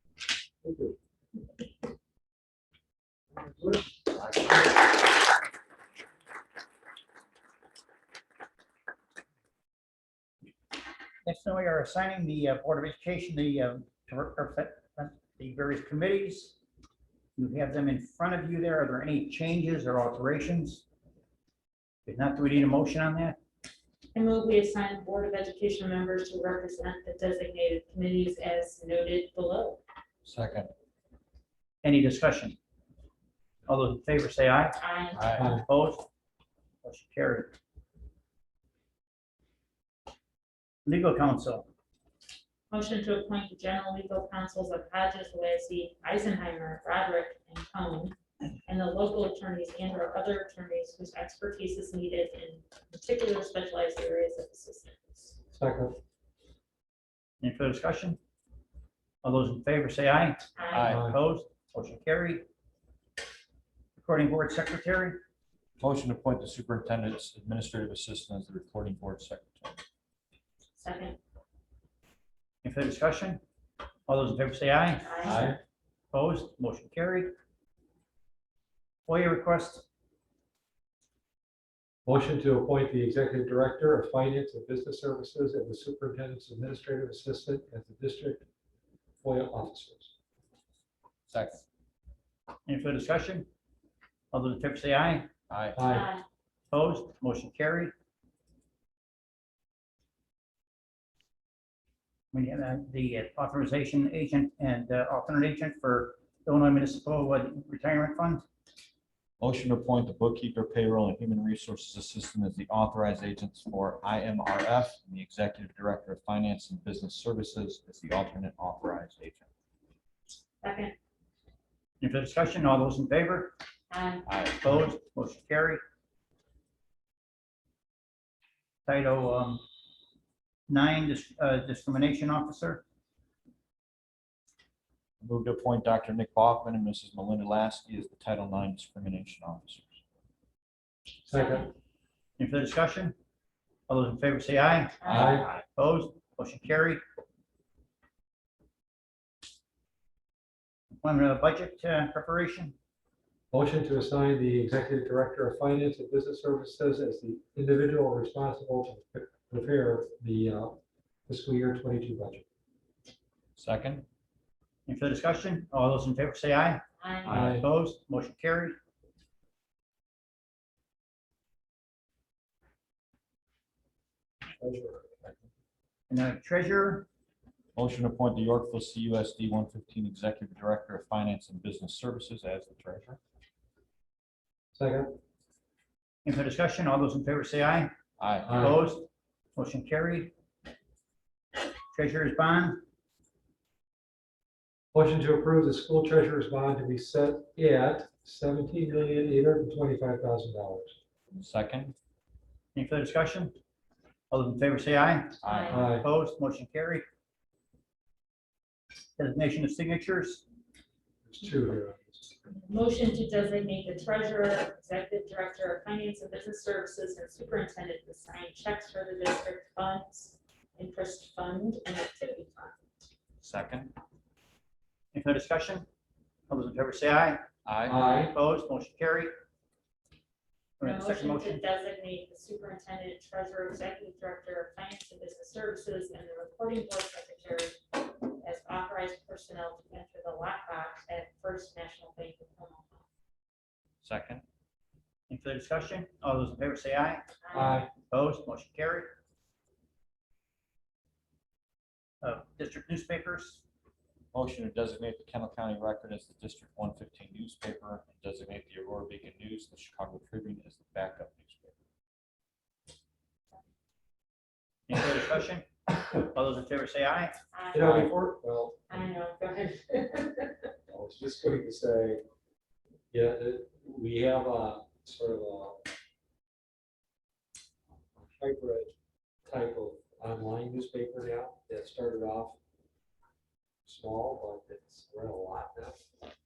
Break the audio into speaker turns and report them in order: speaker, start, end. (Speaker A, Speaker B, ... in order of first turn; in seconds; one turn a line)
Speaker A: 0.6-0.9
Speaker B: 11.2-16.6
Speaker B: 17.4-20.8
Speaker B: 22.1-23.4
Speaker C: 24.1-29.8
Speaker D: 30.2-30.7
Speaker B: 31.8-32.6
Speaker B: 33.7-34.8
Speaker C: 34.8-35.5
Speaker D: 35.1-35.6
Speaker A: 35.3-35.6
Speaker B: 35.6-36.1
Speaker B: 36.8-37.5
Speaker B: 40.8-41.7
Speaker C: 42.7-48.1
Speaker C: 48.6-55.4
Speaker A: 55.5-56.0
Speaker B: 57.4-58.2
Speaker B: 59.2-62.4
Speaker C: 60.5-61.0
Speaker D: 60.7-61.1
Speaker A: 60.8-61.2
Speaker B: 64.0-65.2
Speaker D: 65.8-69.8
Speaker C: 70.8-71.2
Speaker B: 72.6-73.4
Speaker B: 74.1-75.1
Speaker C: 75.0-75.5
Speaker A: 75.2-75.6
Speaker B: 76.1-77.3
Speaker B: 79.0-79.8
Speaker A: 82.0-88.4
Speaker A: 89.2-90.1
Speaker D: 91.3-91.6
Speaker B: 92.7-93.5
Speaker B: 94.3-95.3
Speaker D: 95.5-95.8
Speaker A: 95.7-96.1
Speaker C: 95.9-96.2
Speaker B: 96.7-97.9
Speaker B: 102.3-108.4
Speaker D: 109.4-119.5
Speaker C: 120.6-120.9
Speaker B: 122.0-123.5
Speaker C: 123.9-124.3
Speaker D: 124.2-124.9
Speaker B: 124.6-125.8
Speaker B: 128.9-129.6
Speaker B: 130.7-132.8
Speaker D: 135.2-139.9
Speaker A: 141.2-141.7
Speaker C: 141.3-141.7
Speaker B: 142.4-143.1
Speaker B: 143.9-147.0
Speaker C: 145.0-145.5
Speaker A: 145.1-145.5
Speaker B: 151.0-152.7
Speaker A: 153.5-162.4
Speaker D: 163.6-164.0
Speaker B: 164.8-168.8
Speaker C: 167.0-167.5
Speaker A: 167.2-167.7
Speaker A: 174.5-175.4
Speaker B: 176.1-177.1
Speaker D: 177.8-183.2
Speaker A: 184.7-185.1
Speaker B: 186.2-187.9
Speaker D: 188.2-188.7
Speaker A: 188.4-188.8
Speaker B: 188.5-190.3
Speaker B: 191.9-192.8
Speaker A: 194.9-200.9
Speaker D: 201.3-201.9
Speaker B: 202.7-203.5
Speaker B: 204.3-205.4
Speaker C: 205.4-205.8
Speaker D: 205.4-205.9
Speaker A: 205.7-206.1
Speaker B: 205.9-207.0
Speaker B: 209.2-210.4
Speaker A: 211.2-212.3
Speaker C: 212.5-222.8
Speaker D: 223.4-223.9
Speaker B: 225.1-225.8
Speaker B: 226.5-227.4
Speaker D: 227.6-228.1
Speaker A: 227.9-228.3
Speaker B: 228.2-229.3
Speaker B: 230.8-231.6
Speaker C: 230.8-243.0
Speaker D: 244.0-244.4
Speaker B: 245.3-247.2
Speaker C: 247.4-247.9
Speaker A: 247.5-247.9
Speaker B: 248.1-249.1
Speaker B: 252.2-253.6
Speaker D: 254.3-261.7
Speaker B: 264.9-265.7
Speaker B: 266.3-267.4
Speaker C: 267.5-268.1
Speaker A: 267.7-268.9
Speaker D: 267.8-268.1
Speaker C: 268.9-270.5
Speaker A: 270.9-272.2
Speaker A: 273.1-275.9
Speaker A: 278.2-278.9
Speaker A: 279.4-282.6
Speaker A: 283.8-286.0